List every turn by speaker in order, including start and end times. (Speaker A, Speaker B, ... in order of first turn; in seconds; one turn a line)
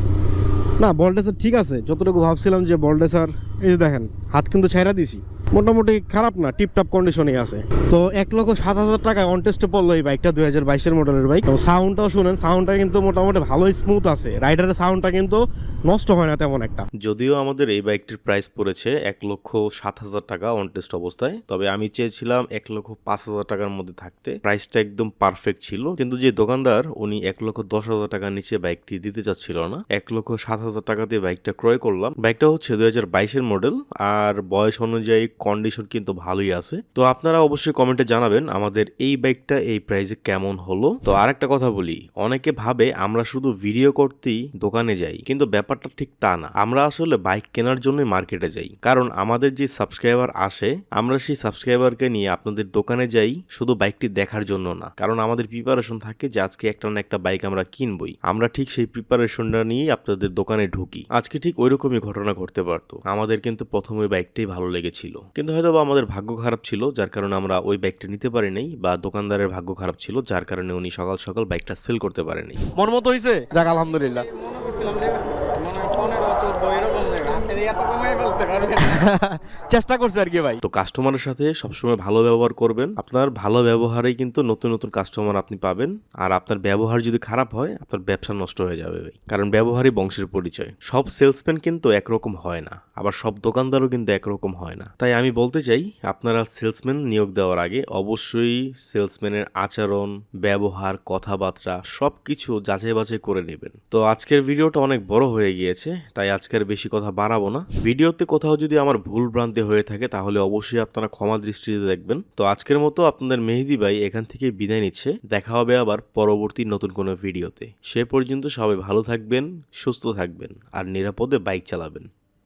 Speaker A: 0.8-16.8
Speaker B: 17.0-72.6
Speaker A: 72.7-74.3
Speaker C: 74.3-78.9
Speaker A: 78.8-80.6
Speaker B: 80.6-122.1